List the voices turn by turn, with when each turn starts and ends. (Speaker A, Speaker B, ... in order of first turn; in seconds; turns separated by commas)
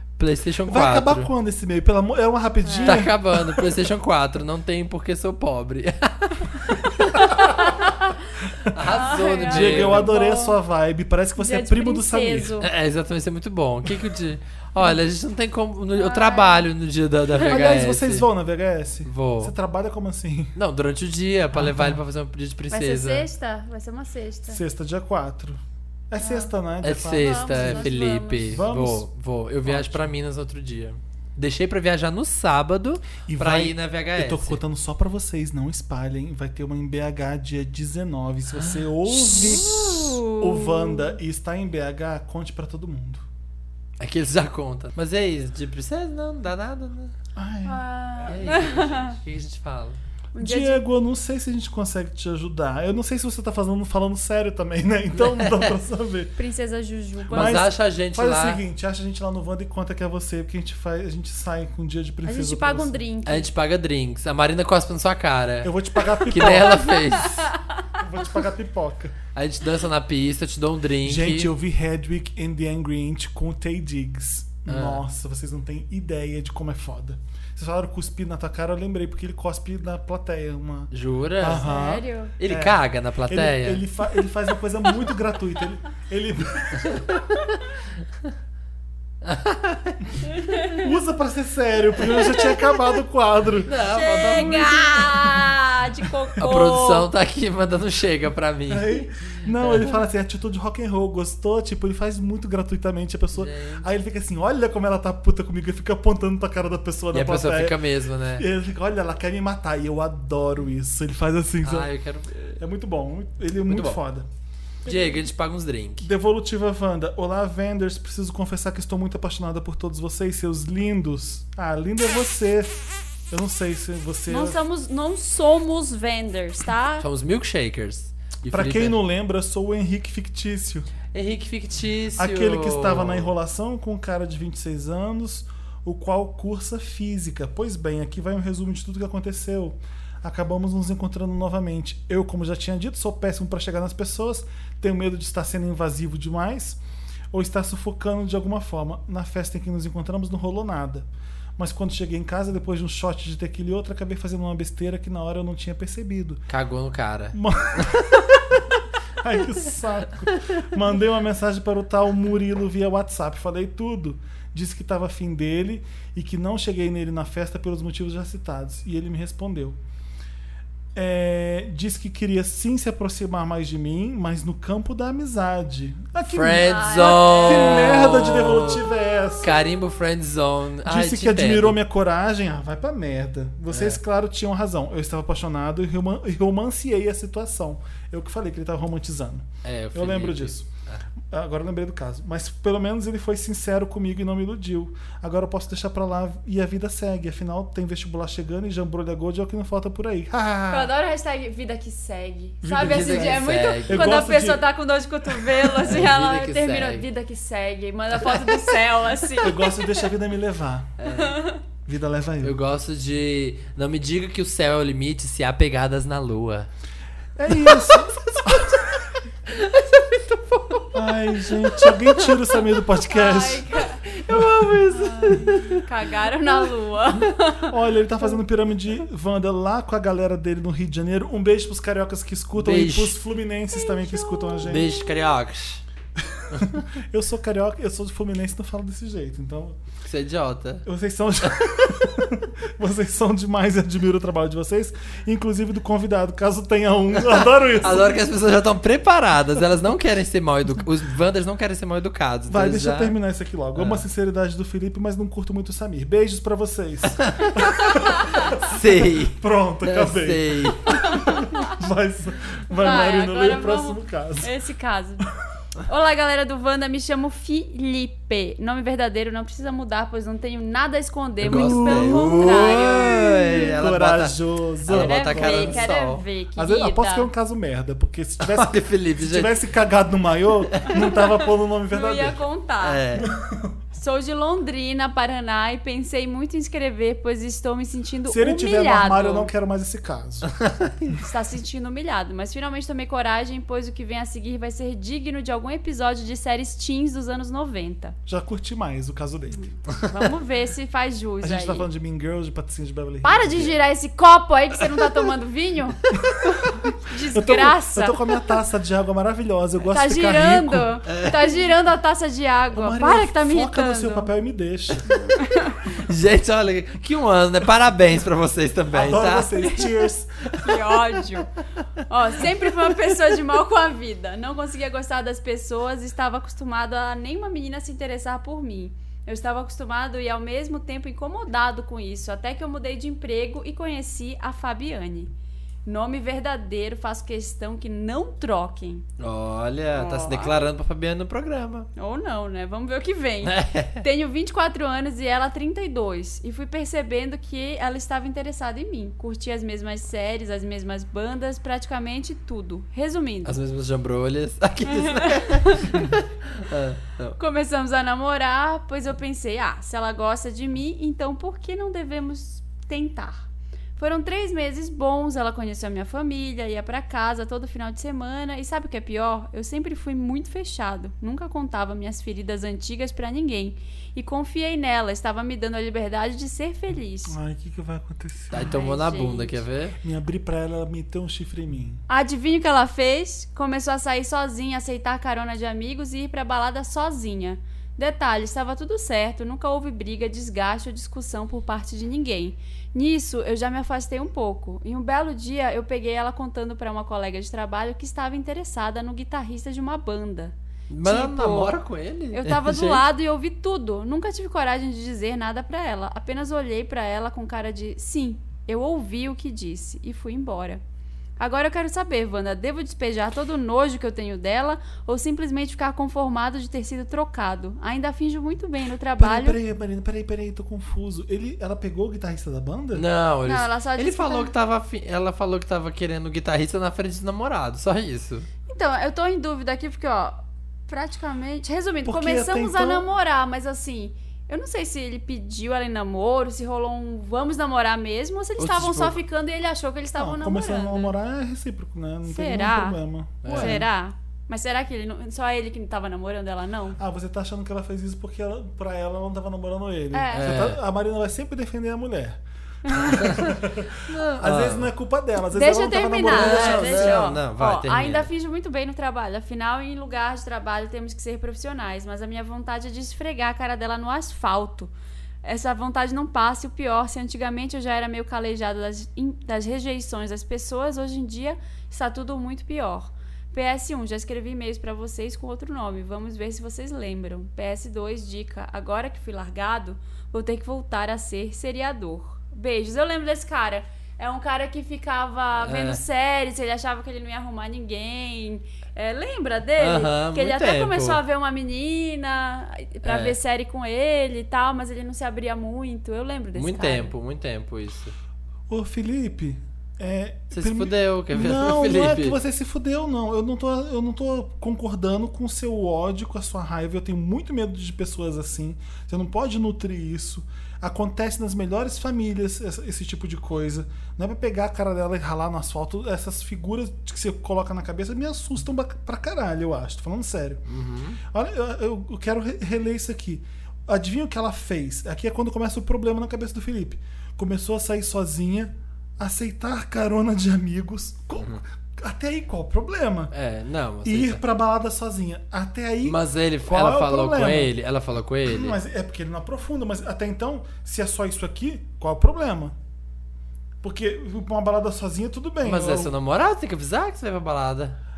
Speaker A: 0.2-1.3, Speaker B: 0.7-3.7, Speaker C: 2.6-3.0, Speaker A: 2.9-7.7, Speaker C: 7.1-7.9, Speaker A: 8.7-10.0, Speaker C: 8.9-10.6, Speaker B: 9.4-12.5, Speaker C: 11.4-12.7, Speaker A: 12.6-18.3, Speaker C: 16.0-16.7, Speaker B: 17.4-20.6, Speaker A: 19.1-19.5, Speaker A: 20.6-23.3, Speaker B: 21.5-22.0, Speaker C: 22.7-24.6, Speaker B: 24.5-27.9, Speaker C: 26.2-26.5, Speaker A: 26.8-34.6, Speaker C: 27.1-28.6, Speaker B: 28.5-29.1, Speaker B: 29.6-30.1, Speaker B: 33.3-43.3, Speaker A: 38.6-40.0, Speaker C: 39.2-41.2, Speaker A: 44.0-47.1, Speaker B: 47.4-47.8, Speaker C: 47.6-49.2, Speaker A: 48.3-50.0, Speaker C: 50.3-50.8, Speaker B: 50.4-56.4, Speaker A: 55.2-55.8, Speaker C: 56.4-57.6, Speaker A: 57.3-58.6, Speaker B: 57.3-63.0, Speaker C: 62.2-63.5, Speaker A: 63.3-65.7, Speaker B: 65.6-66.9, Speaker A: 66.2-67.5, Speaker C: 66.8-67.6, Speaker B: 68.0-69.2, Speaker A: 69.3-71.5, Speaker B: 71.0-87.0, Speaker A: 74.7-75.0, Speaker A: 80.9-81.6, Speaker C: 81.6-82.3, Speaker A: 82.4-83.8, Speaker A: 86.9-87.2, Speaker A: 89.2-90.0, Speaker B: 90.7-93.7, Speaker A: 93.7-95.4, Speaker C: 93.9-97.1, Speaker A: 96.4-99.1, Speaker B: 98.7-107.8, Speaker A: 99.6-99.9, Speaker A: 103.3-103.8, Speaker A: 107.1-108.5, Speaker B: 108.4-111.9, Speaker A: 111.6-112.6, Speaker B: 112.6-114.3, Speaker A: 113.7-114.0, Speaker A: 114.9-116.1, Speaker B: 116.0-124.6, Speaker C: 124.3-127.1, Speaker A: 127.0-129.0, Speaker B: 128.5-130.9, Speaker A: 131.1-133.3, Speaker B: 132.2-146.8, Speaker B: 147.3-156.4, Speaker A: 156.5-158.2, Speaker B: 157.3-157.9, Speaker B: 159.2-169.8, Speaker B: 170.9-179.6, Speaker A: 176.3-178.8, Speaker C: 176.6-178.0, Speaker A: 179.4-181.8, Speaker B: 180.8-190.7, Speaker A: 183.7-184.0, Speaker A: 189.6-191.0, Speaker B: 191.3-200.9, Speaker C: 200.7-209.8, Speaker B: 202.6-204.7, Speaker A: 202.7-204.2, Speaker B: 205.3-206.1, Speaker A: 205.8-207.1, Speaker B: 209.4-211.0, Speaker A: 211.0-211.4, Speaker C: 211.1-211.6, Speaker B: 211.9-212.6, Speaker A: 212.4-216.7, Speaker B: 217.4-219.0, Speaker A: 217.5-218.9, Speaker A: 219.5-221.0, Speaker B: 220.9-223.7, Speaker C: 223.1-224.1, Speaker A: 224.1-225.8, Speaker C: 224.9-227.7, Speaker B: 227.7-234.9, Speaker A: 232.6-233.2, Speaker C: 233.7-235.1, Speaker A: 234.6-235.8, Speaker B: 236.2-239.8, Speaker A: 240.1-240.8, Speaker B: 240.8-248.2, Speaker A: 241.4-241.9, Speaker A: 247.8-253.2, Speaker B: 252.5-264.5, Speaker A: 253.8-254.0, Speaker A: 257.2-257.6, Speaker C: 257.6-258.4, Speaker A: 258.5-261.2, Speaker C: 261.0-261.7, Speaker C: 262.8-265.3, Speaker C: 265.9-273.6, Speaker B: 271.4-275.9, Speaker A: 271.4-276.2, Speaker C: 274.9-277.3, Speaker B: 276.6-282.4, Speaker A: 278.4-279.5, Speaker C: 281.0-283.0, Speaker A: 282.8-283.3, Speaker B: 283.2-283.7, Speaker C: 283.9-289.5, Speaker B: 288.3-290.5, Speaker A: 290.6-291.1, Speaker C: 291.2-298.2, Speaker B: 298.3-299.7, Speaker C: 299.6-301.9, Speaker B: 301.4-303.7, Speaker C: 303.2-306.0, Speaker C: 307.1-308.2, Speaker B: 307.3-311.0, Speaker C: 309.9-314.3, Speaker A: 311.1-311.6, Speaker B: 312.7-315.1, Speaker C: 315.1-315.8, Speaker A: 315.9-319.7, Speaker B: 318.9-320.7, Speaker C: 320.6-321.5, Speaker C: 322.1-335.3, Speaker C: 335.9-339.1, Speaker A: 339.2-341.9, Speaker C: 339.9-340.7, Speaker C: 342.0-353.6, Speaker A: 343.4-344.0, Speaker A: 353.4-357.4, Speaker C: 354.9-355.9, Speaker C: 357.4-363.5, Speaker C: 364.0-377.4, Speaker B: 377.3-378.8, Speaker A: 378.5-380.0, Speaker C: 378.6-379.6, Speaker B: 380.0-382.0, Speaker C: 382.1-400.5, Speaker A: 400.9-403.0, Speaker C: 401.0-401.8, Speaker C: 402.3-410.8, Speaker C: 411.4-419.6, Speaker B: 419.2-423.1, Speaker A: 422.9-428.5, Speaker C: 423.4-424.5, Speaker C: 428.7-441.1, Speaker B: 432.1-433.1, Speaker A: 438.6-439.2, Speaker B: 440.2-443.9, Speaker C: 442.3-447.0, Speaker A: 443.4-443.9, Speaker B: 447.0-457.3, Speaker C: 450.1-450.5, Speaker A: 450.4-450.8, Speaker C: 452.9-453.3, Speaker A: 453.2-454.9, Speaker C: 455.5-464.9, Speaker A: 456.3-458.3, Speaker C: 465.4-497.1, Speaker A: 485.6-486.0, Speaker A: 489.8-491.2, Speaker A: 493.0-493.4, Speaker A: 496.5-498.1, Speaker B: 498.7-520.6, Speaker A: 500.5-502.4, Speaker A: 520.7-521.2, Speaker B: 521.2-533.3, Speaker A: 533.3-534.4, Speaker B: 534.0-537.7, Speaker A: 536.0-538.8, Speaker B: 538.5-542.8, Speaker B: 543.8-546.1, Speaker A: 545.6-548.0